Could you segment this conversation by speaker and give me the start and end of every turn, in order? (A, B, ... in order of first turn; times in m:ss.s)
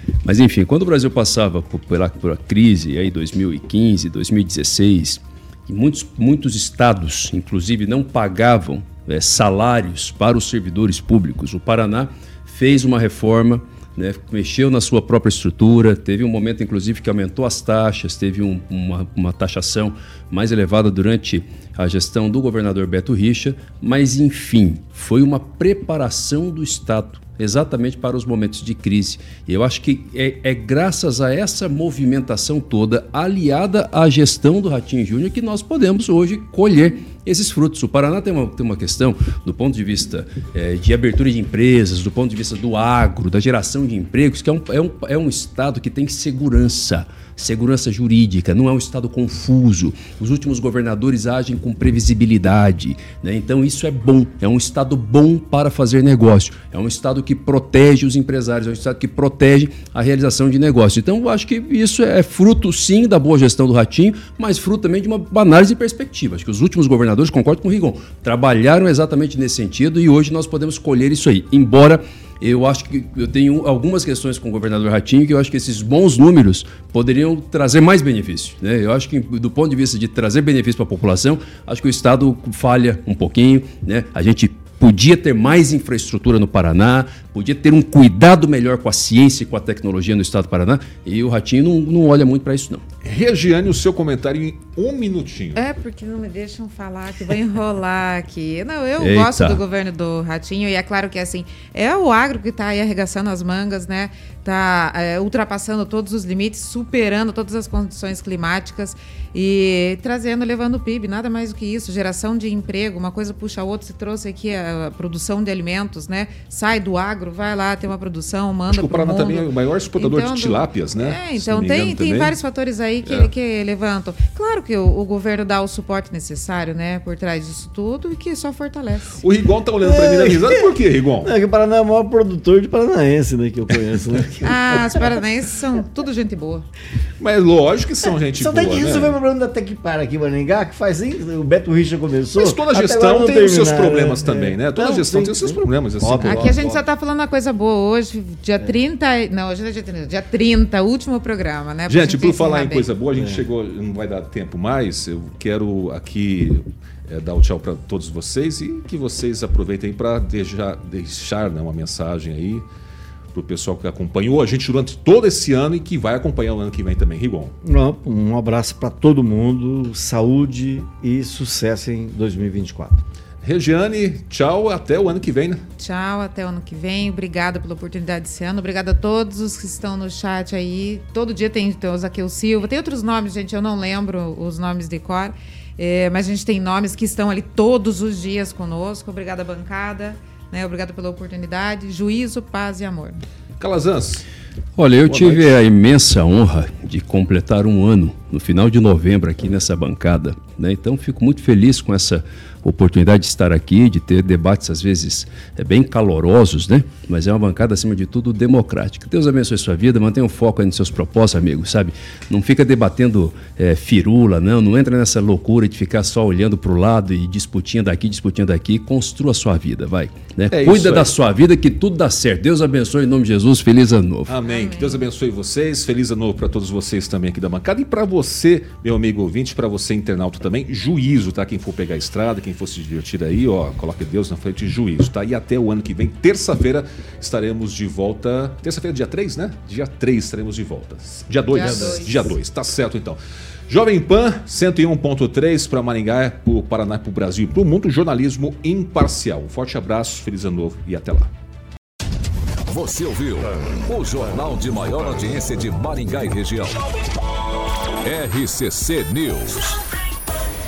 0:00.2-1:32.8 A
1:33.0-1:35.6 B
1:35.6-2:09.2 C
1:39.0-1:39.6 A
1:58.7-2:02.4 B
2:03.0-2:03.3 B
2:09.2-2:11.3 B
2:09.8-2:15.0 D
2:14.4-2:16.7 C
2:17.2-2:19.2 B
2:18.3-2:26.8 D
2:22.3-2:26.6 B
2:26.2-2:32.9 C
2:31.9-2:42.6 B
2:33.1-2:33.5 D
2:43.3-2:47.5 B
2:47.6-2:53.0 D
2:53.4-2:55.6 B
2:55.8-3:13.2 C
3:13.6-3:14.2 B
3:14.8-3:44.3 A
3:15.0-3:15.5 B
3:40.5-3:41.1 B
3:44.3-4:11.3 B
3:44.4-3:45.0 C
4:01.5-4:02.3 C
4:01.6-4:02.0 D
4:12.7-4:16.8 E
4:18.0-4:19.8 E